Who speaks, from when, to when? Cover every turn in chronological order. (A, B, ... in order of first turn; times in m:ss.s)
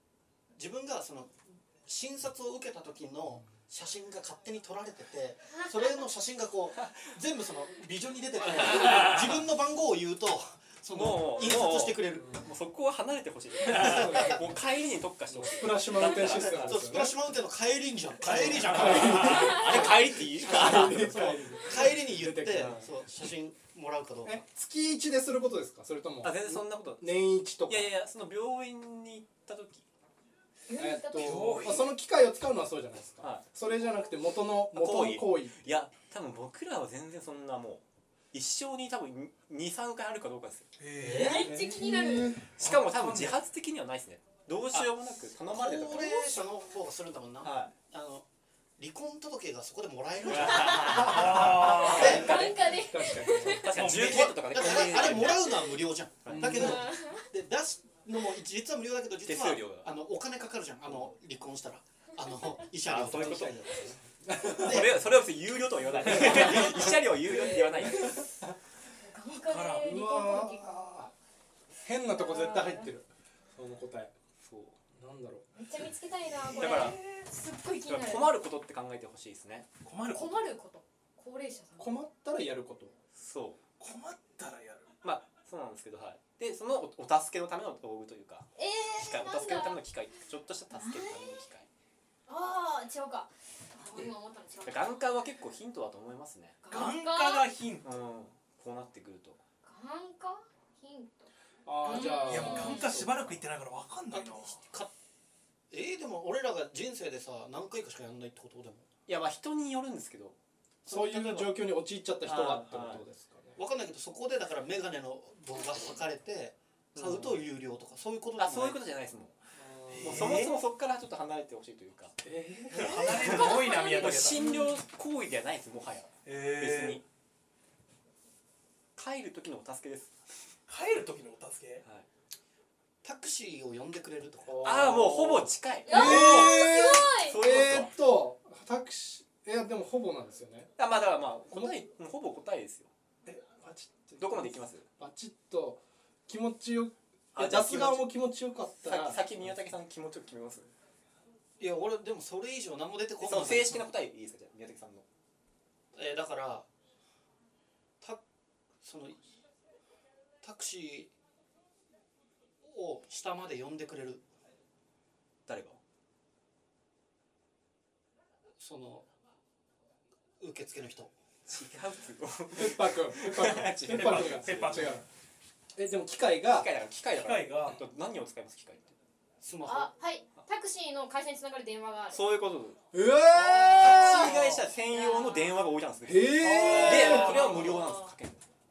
0:00.5-0:12.4 A
0:10.9-0:17.0 B
0:12.2-0:12.5 C
0:13.7-0:14.4 A
0:13.8-0:14.5 C
0:15.3-0:17.2 C
0:15.9-0:24.4 A
0:18.2-0:21.4 B
0:18.2-0:19.5 D
0:18.6-0:22.9 C
0:22.6-0:22.8 B
0:24.2-0:27.9 C
0:26.2-0:29.8 B
0:30.7-0:31.6 E
0:30.7-0:35.7 C
0:31.1-0:31.9 D
0:34.7-0:41.4 B
0:40.8-0:41.3 D
0:41.0-0:41.5 A
0:41.1-0:42.4 E
0:41.3-0:43.4 C
0:42.6-0:46.5 B
0:45.5-0:48.2 A
0:47.4-0:47.7 B
0:48.8-0:52.5 A
0:50.2-0:52.5 B
0:51.0-0:52.1 D
0:51.3-0:54.0 E
0:51.6-0:53.8 C
0:53.4-0:55.7 B
0:53.7-1:03.7 A
0:54.6-0:55.5 E
0:56.2-0:56.8 B
0:56.3-0:56.8 C
0:56.6-0:57.1 E
0:59.2-0:59.9 B
1:02.8-1:04.0 B
1:02.9-1:04.9 C
1:04.5-1:05.1 A
1:04.6-1:08.3 B
1:06.0-1:07.0 C
1:06.1-1:06.9 A
1:07.8-1:08.5 C
1:09.0-1:11.1 E
1:09.3-1:10.0 D
1:09.8-1:11.1 C
1:11.8-1:14.1 C
1:12.1-1:12.9 E
1:14.4-1:14.8 B
1:15.0-1:15.4 C
1:15.5-1:18.4 E
1:16.6-1:17.0 B
1:16.6-1:17.0 D
1:17.9-1:19.7 B
1:19.8-1:20.4 D
1:20.1-1:21.9 E
1:21.8-1:22.9 C
1:23.1-1:23.6 B
1:23.8-1:24.9 D
1:25.0-1:31.7 B
1:28.6-1:29.8 E
1:30.7-1:31.4 E
1:32.3-1:35.1 E
1:34.6-1:36.8 B
1:36.6-1:37.5 E
1:36.7-1:37.9 D
1:37.8-1:39.4 B
1:39.6-1:43.0 E
1:41.6-1:42.8 C
1:42.2-1:44.6 D
1:44.1-1:44.9 A
1:45.7-1:48.8 A
1:49.1-1:50.4 B
1:50.8-1:53.6 C
1:50.9-1:51.5 A
1:52.2-1:53.0 B
1:53.6-1:58.8 A
1:57.0-1:57.4 C
1:57.0-1:57.3 B
1:58.4-1:59.3 B
1:59.6-2:00.4 C
1:59.9-2:00.6 D
2:00.0-2:02.2 B
2:02.2-2:02.9 C
2:02.7-2:04.5 D
2:02.8-2:07.0 B
2:02.9-2:04.6 E
2:06.2-2:07.0 D
2:08.9-2:10.1 B
2:10.7-2:11.8 D
2:13.0-2:14.8 A
2:14.4-2:20.7 C
2:14.6-2:16.5 B
2:15.8-2:17.4 E
2:15.9-2:16.7 D
2:17.1-2:17.9 B
2:20.8-2:22.9 B
2:21.5-2:21.8 C
2:23.3-2:29.5 C
2:24.2-2:24.8 B
2:27.4-2:28.1 B
2:28.8-2:30.7 B
2:31.6-2:33.9 A
2:33.2-2:35.0 B
2:35.9-2:36.7 A
2:38.8-2:39.2 A
2:40.4-2:41.1 A
2:42.6-2:44.2 A
2:45.4-2:45.8 B
2:48.6-2:49.0 A
2:50.4-2:51.1 A
2:51.4-2:55.0 B
2:52.5-2:55.0 C
2:53.9-2:55.0 D
2:55.8-2:56.7 C
2:56.4-2:59.0 B
2:57.1-2:57.8 D
2:59.4-2:59.9 A
2:59.6-3:02.2 E
3:02.1-3:02.8 B
3:02.9-3:04.3 C
3:03.3-3:04.7 D
3:03.7-3:08.4 B
3:04.0-3:05.6 E
3:06.0-3:07.7 C
3:06.4-3:07.8 D
3:07.0-3:08.1 E